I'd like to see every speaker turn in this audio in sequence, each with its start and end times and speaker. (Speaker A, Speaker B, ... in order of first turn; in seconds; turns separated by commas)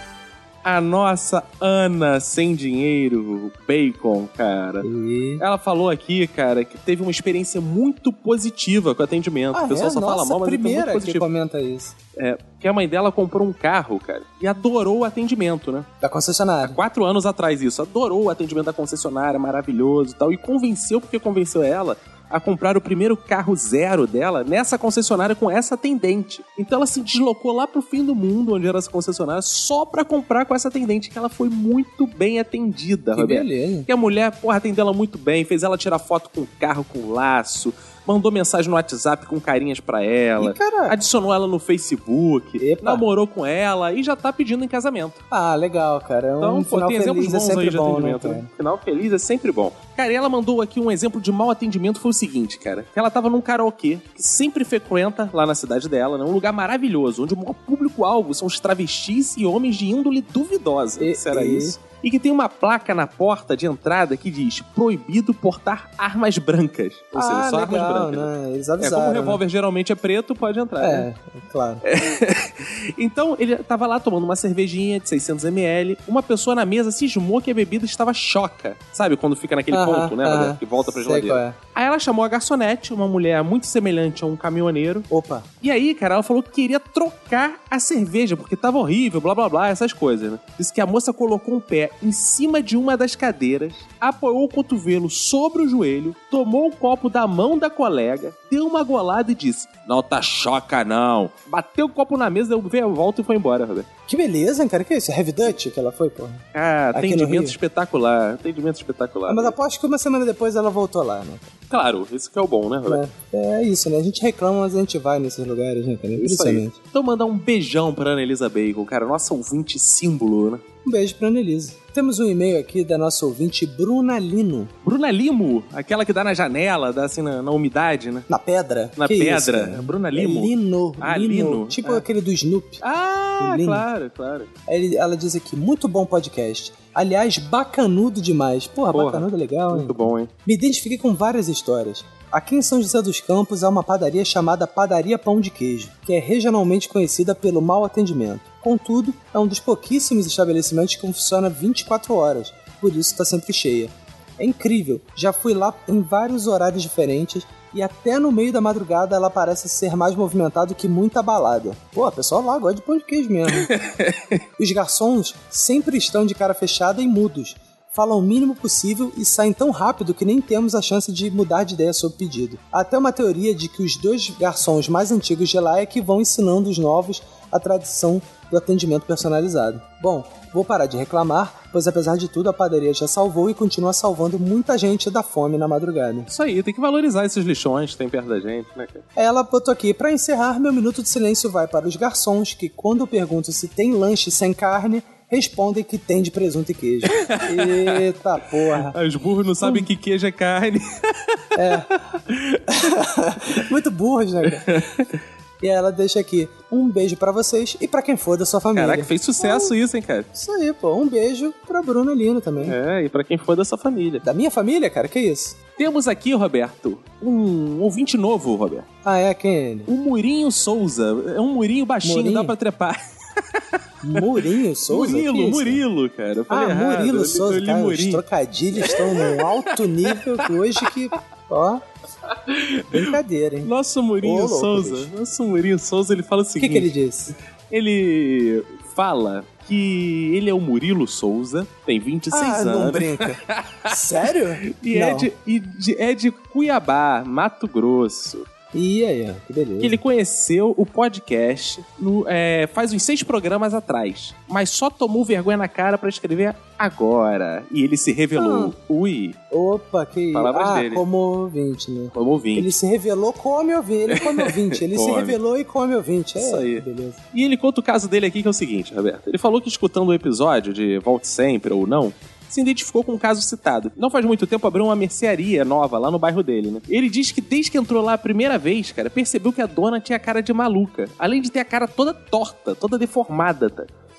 Speaker A: 0.6-4.8, Speaker B: 4.8-5.4, Speaker A: 5.4-11.2, Speaker B: 9.5-11.9, Speaker A: 12.2-15.9, Speaker B: 16.0-16.8, Speaker A: 16.6-45.2, Speaker B: 33.1-33.9, Speaker B: 40.4-41.0, Speaker B: 42.6-43.0, Speaker B: 45.3-48.5, Speaker A: 46.4-71.1, Speaker B: 61.0-61.8, Speaker B: 67.1-69.4, Speaker B: 70.8-71.8, Speaker A: 71.8-85.1, Speaker B: 79.7-81.6, Speaker B: 85.1-85.5, Speaker A: 85.6-103.9, Speaker B: 104.1-107.6, Speaker A: 106.5-109.5, Speaker B: 109.3-111.6, Speaker A: 111.7-113.0, Speaker B: 112.8-116.8, Speaker A: 116.2-120.6, Speaker B: 120.8-124.7, Speaker A: 124.8-128.3, Speaker B: 128.3-132.8, Speaker A: 129.0-132.0, Speaker A: 132.8-134.5, Speaker B: 133.4-133.8, Speaker B: 134.7-163.7, Speaker A: 138.9-140.3, Speaker A: 163.6-164.2, Speaker B: 164.6-186.3, Speaker A: 186.3-189.0, Speaker B: 189.2-198.9, Speaker A: 197.2-198.0, Speaker A: 198.7-202.6, Speaker B: 199.6-199.9, Speaker B: 201.5-201.9, Speaker B: 202.7-204.7, Speaker A: 204.5-205.1, Speaker B: 205.6-209.7, Speaker A: 208.8-210.3, Speaker B: 210.3-212.8, Speaker A: 212.6-214.2, Speaker B: 214.2-215.6, Speaker A: 215.8-218.9, Speaker B: 219.0-219.9, Speaker A: 219.9-223.0, Speaker B: 222.0-222.5, Speaker B: 224.0-225.8, Speaker A: 224.1-228.2, Speaker B: 226.5-231.8, Speaker A: 228.8-230.4, Speaker A: 232.3-236.9, Speaker B: 232.9-233.7, Speaker B: 234.2-235.1, Speaker B: 236.6-237.3, Speaker A: 237.7-248.4, Speaker B: 242.3-245.3, Speaker B: 248.7-250.0, Speaker A: 249.8-259.4, Speaker B: 258.3-258.7, Speaker B: 259.5-267.2, Speaker A: 260.3-261.0, Speaker A: 262.1-262.8, Speaker A: 264.1-265.4, Speaker A: 266.4-283.9